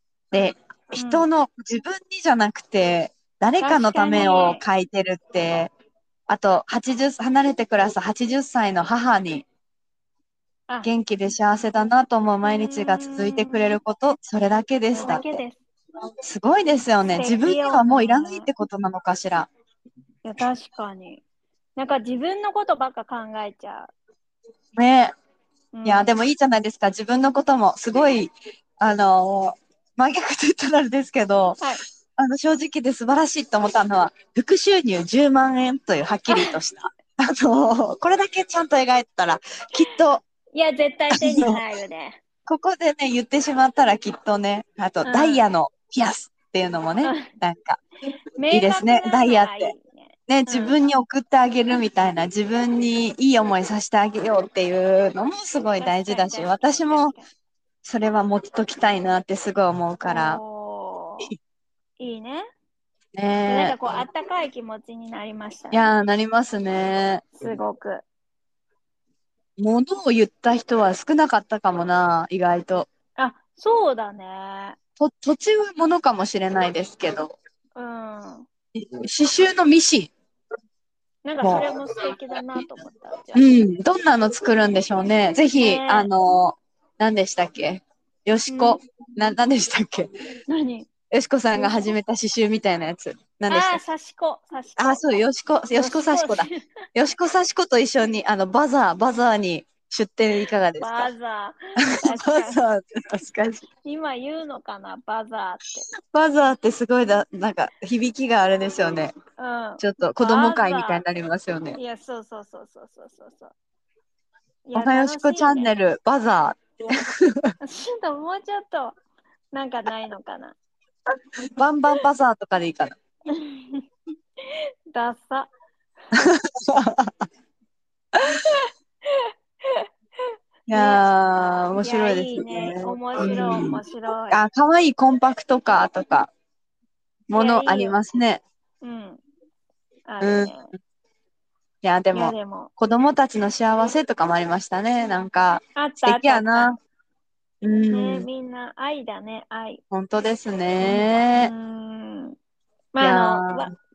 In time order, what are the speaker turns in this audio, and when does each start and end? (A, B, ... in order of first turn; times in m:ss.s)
0:00.3-0:05.7 A
0:01.0-0:01.3 B
0:03.6-0:04.6 B
0:06.3-0:09.5 A
0:10.8-0:15.4 A
0:12.5-0:13.7 B
0:14.9-0:15.6 B
0:16.2-0:19.5 A
0:17.2-0:18.5 B
0:20.2-0:21.2 B
0:21.8-0:23.9 B
0:24.8-0:25.1 A
0:25.7-0:26.1 B
0:25.8-0:31.6 A
0:32.2-0:40.2 A
0:36.3-0:36.6 B
0:40.5-0:42.2 B
0:41.1-0:41.6 A
0:42.5-0:47.8 A
0:45.0-0:45.4 B
0:47.0-0:47.4 B
0:48.4-0:50.8 B
0:48.5-0:49.8 A
0:50.3-0:57.1 A
0:55.8-0:57.3 B
0:57.8-1:00.4 A
1:00.0-1:01.3 B
1:02.0-1:02.5 B
1:03.2-1:04.0 A
1:03.5-1:05.9 B
1:05.7-1:07.3 A
1:07.4-1:08.0 B
1:09.6-1:12.9 A
1:13.2-1:14.8 B
1:15.0-1:17.3 A
1:17.8-1:18.5 B
1:18.8-1:20.1 A
1:21.2-1:23.5 B
1:21.4-1:21.7 A
1:23.4-1:30.1 A
1:25.6-1:26.1 B
1:28.5-1:28.8 B
1:30.5-1:30.9 B
1:31.1-1:33.8 A
1:33.5-1:35.2 B
1:34.8-1:41.1 A
1:35.8-1:36.6 B
1:40.8-1:42.6 B
1:41.9-1:43.6 A
1:43.8-1:45.9 B
1:46.1-1:49.1 A
1:49.4-1:51.0 B
1:49.8-1:51.8 A
1:51.8-1:53.5 B
1:54.7-1:55.7 B
1:54.8-1:57.5 A
1:57.6-1:59.0 B
1:59.5-2:00.6 B
2:01.6-2:03.0 A
2:03.3-2:03.8 B
2:04.4-2:05.5 B
2:06.1-2:07.3 A
2:08.1-2:08.4 A
2:08.3-2:09.9 B
2:10.7-2:16.3 A
2:10.7-2:14.4 B
2:17.3-2:18.4 A
2:17.3-2:18.0 B
2:18.8-2:19.2 B
2:20.1-2:20.7 B
2:20.2-2:20.5 A
2:21.8-2:26.8 A
2:22.1-2:22.7 B
2:25.8-2:26.8 B
2:27.6-2:28.3 A
2:27.9-2:29.8 B
2:29.9-2:31.5 A
2:30.8-2:32.4 B
2:32.9-2:33.7 B
2:33.0-2:33.7 A